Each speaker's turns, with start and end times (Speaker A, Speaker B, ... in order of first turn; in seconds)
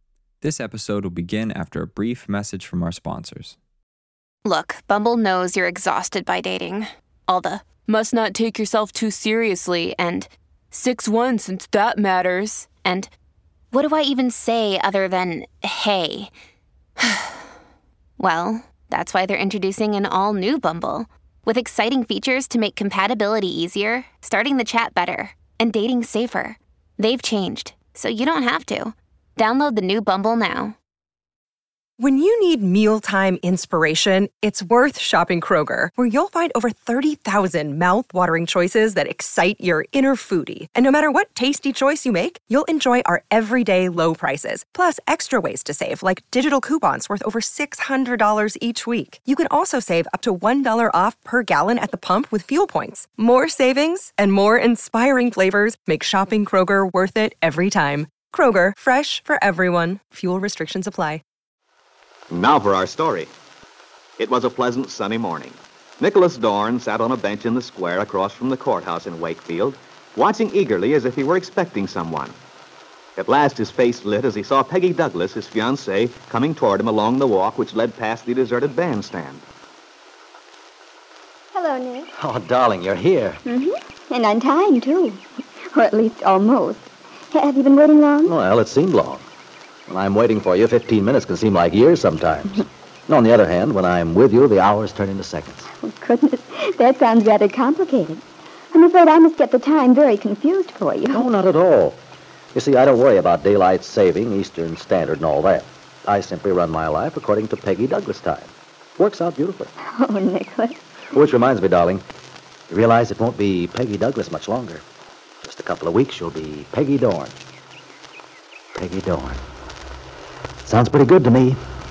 Speaker A: 0.4-3.6
Speaker B: 4.4-13.1, 13.7-16.3, 18.2-30.7
Speaker C: 32.0-61.2
Speaker D: 62.3-63.3, 64.2-72.4, 73.2-79.4
Speaker E: 81.5-82.1, 83.5-85.2, 85.7-88.3, 95.8-98.2, 98.7-101.2, 110.0-110.8
Speaker F: 82.2-83.4, 88.2-89.2, 89.9-95.7, 101.1-102.0, 102.5-109.7, 111.1-112.0, 112.7-114.8, 115.4-117.3, 118.8-119.4, 120.6-121.6